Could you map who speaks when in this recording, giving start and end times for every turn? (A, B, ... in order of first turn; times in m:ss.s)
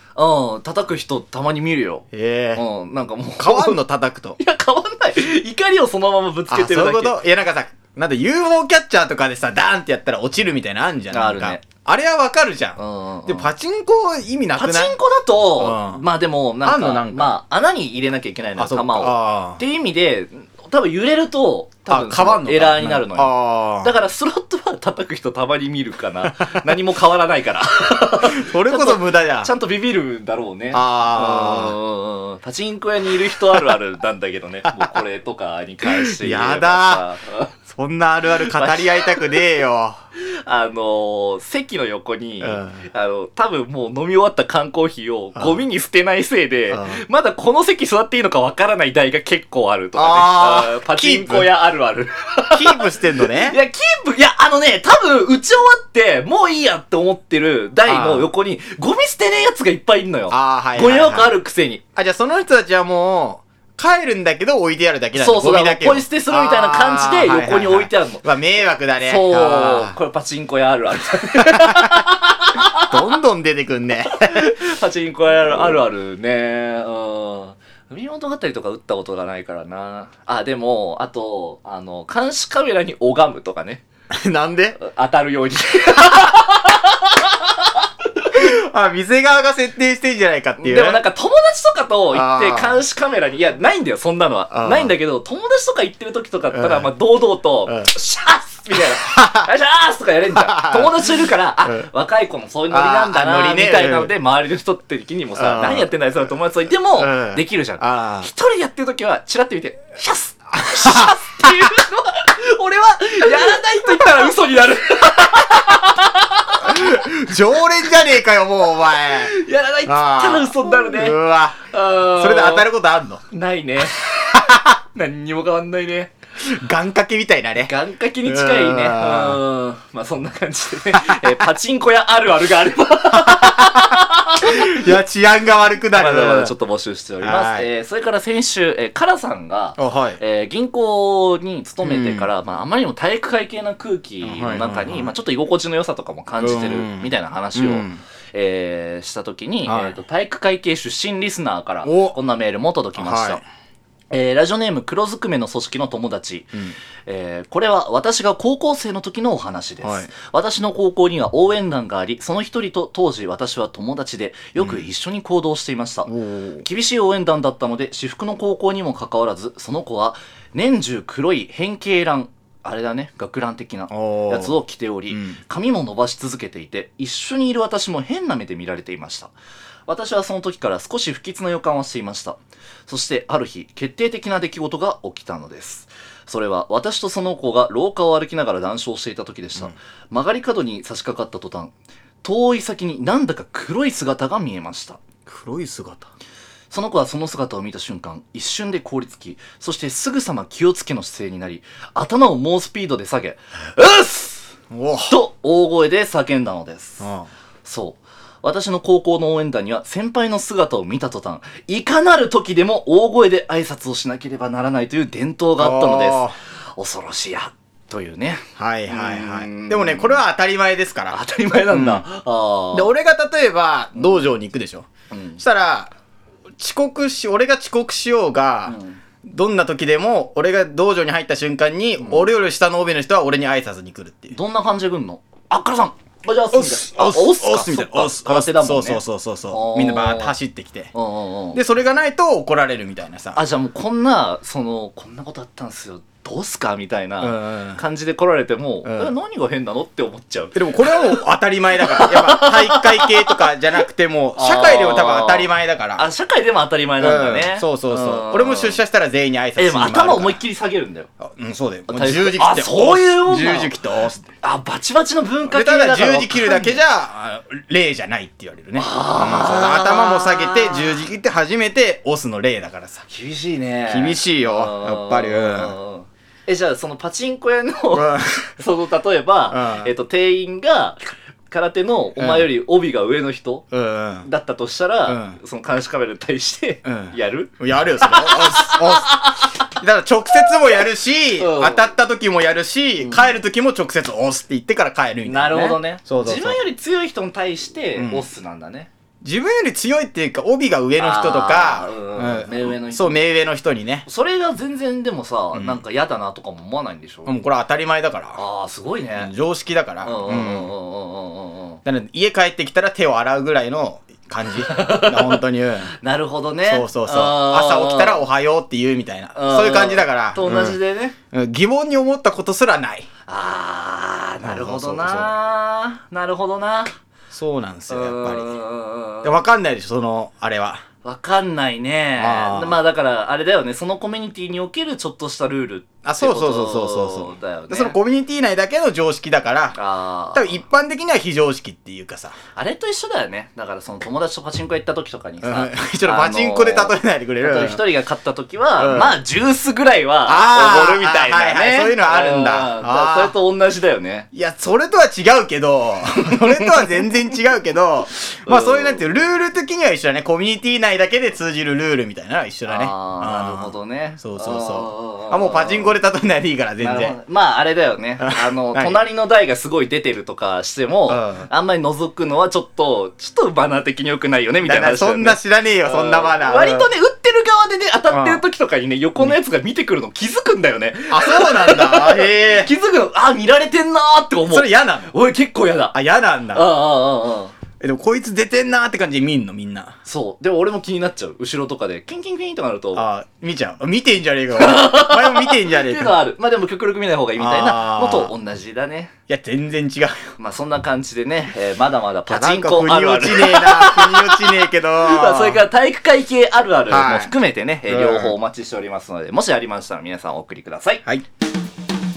0:00.2-0:03.8 A
0:02.1-0:02.6 B
0:03.4-0:04.4 B
0:04.4-0:07.2 A
0:06.5-0:15.0 B
0:11.1-0:11.6 A
0:12.8-0:13.5 A
0:14.6-0:37.5 A
0:15.6-0:16.0 B
0:16.6-0:17.4 B
0:18.6-0:19.6 B
0:21.9-0:23.9 B
0:26.3-0:26.6 B
0:28.2-0:29.5 B
0:30.7-0:31.8 B
0:35.8-0:37.0 B
0:37.7-0:40.0 B
0:38.3-0:39.4 A
0:40.2-1:01.8 A
0:42.4-0:42.8 B
0:45.4-0:45.6 B
0:46.7-0:47.0 B
0:50.0-0:51.5 B
0:52.5-0:53.6 B
0:57.8-0:58.3 B
1:00.3-1:01.3 B
1:02.0-1:10.0 B
1:05.1-1:08.2 A
1:09.0-1:13.0 A
1:11.3-1:12.1 B
1:12.8-1:14.6 B
1:14.1-1:23.8 A
1:24.2-1:24.8 B
1:24.8-1:28.2 A
1:28.3-1:31.0 B
1:30.6-1:57.0 A
1:32.1-1:32.8 B
1:34.5-1:34.9 B
1:36.5-1:36.9 B
1:38.9-1:39.5 B
1:40.3-1:41.9 B
1:42.7-1:44.1 B
1:45.4-1:45.9 B
1:47.0-1:48.3 B
1:50.6-1:51.7 B
1:53.3-1:54.4 B
1:56.6-2:03.2 B
1:59.1-2:02.7 A
2:03.3-2:06.1 A
2:04.3-2:04.7 B
2:06.4-2:07.7 B
2:07.6-2:14.9 A
2:08.2-2:09.4 B
2:11.0-2:11.4 B
2:13.1-2:16.5 B
2:15.9-2:33.4 A
2:17.2-2:17.7 B
2:19.8-2:20.2 B
2:21.8-2:22.3 B
2:24.2-2:25.1 B
2:26.4-2:28.0 B
2:29.6-2:30.0 B
2:31.8-2:32.2 B
2:33.0-2:33.4 B
2:34.1-2:46.1 A
2:39.8-2:40.1 B
2:44.6-2:44.9 B
2:46.1-2:46.7 B
2:46.6-2:59.3 A
2:53.9-2:54.6 B
2:55.1-2:55.4 B
2:59.9-3:15.0 A
3:15.3-3:16.1 B
3:16.7-3:24.5 A
3:24.7-3:25.2 B
3:25.1-3:27.1 A
3:27.0-3:27.3 B
3:27.6-3:40.2 A
3:35.6-3:36.4 B
3:38.6-3:42.0 B
3:41.1-3:42.9 A
3:42.7-3:44.9 B
3:44.0-3:44.3 A
3:45.1-3:45.4 A
3:45.4-3:45.9 B
3:46.6-3:54.4 B
3:48.7-3:49.0 A
3:52.0-3:52.3 A
3:54.3-4:00.4 A
3:56.5-4:00.9 B
4:00.9-4:01.6 A
4:01.5-4:03.4 B
4:03.3-4:11.2 A
4:07.2-4:07.8 B
4:08.8-4:09.1 B
4:10.6-4:16.1 B
4:11.7-4:13.4 A
4:14.4-4:18.8 A
4:17.0-4:20.4 B
4:19.6-4:21.1 A
4:21.2-4:24.3 B
4:21.9-4:23.8 A
4:24.4-4:26.8 A
4:25.5-4:33.1 B
4:28.8-4:31.1 A
4:33.1-4:41.0 A
4:33.9-4:35.7 B
4:37.9-4:38.6 B
4:39.5-4:39.9 B
4:41.5-4:43.7 A
4:42.2-4:42.5 B
4:43.7-4:44.3 B
4:44.2-4:49.6 A
4:45.1-4:45.4 B
4:46.8-4:56.6 B
4:51.4-4:51.9 A
4:53.0-4:53.4 A
4:55.2-4:58.9 A
4:58.0-4:58.3 B
4:59.2-5:04.1 B
5:01.0-5:03.2 A
5:04.1-5:07.3 A
5:05.5-5:05.8 B
5:07.2-5:08.4 B
5:08.4-5:09.3 A
5:09.2-5:10.7 B
5:10.0-5:11.8 A
5:11.8-5:15.9 B
5:14.6-5:18.2 A
5:16.7-5:20.8 B
5:19.4-5:21.2 A
5:21.3-5:23.1 B
5:23.3-5:26.9 A
5:24.4-5:25.3 B
5:27.3-5:28.6 B
5:27.9-5:29.4 A
5:29.2-5:30.8 B
5:31.0-5:38.0 A
5:32.2-5:32.8 B
5:36.0-5:39.8 B
5:39.8-5:40.6 A
5:40.3-5:42.4 B
5:42.6-5:54.3 A
5:45.4-5:47.8 B
5:48.8-5:49.2 B
5:50.3-5:53.4 B
5:54.3-6:07.2 B
5:56.3-5:57.1 A
5:58.5-5:59.3 A
6:02.7-6:06.0 A
6:06.8-6:26.0 A
6:08.2-6:09.0 B
6:11.1-6:11.5 B
6:14.6-6:16.9 B
6:18.1-6:18.4 B
6:21.1-6:22.7 B
6:24.5-6:25.1 B
6:25.9-6:26.7 B
6:26.5-6:27.5 A
6:27.8-6:29.9 B
6:30.0-6:33.1 A
6:33.0-6:36.2 B
6:34.6-6:39.1 A
6:37.4-6:38.3 B
6:39.3-6:40.2 B
6:40.4-6:51.0 A
6:42.3-6:45.6 B
6:46.9-6:47.4 B
6:47.9-6:48.4 B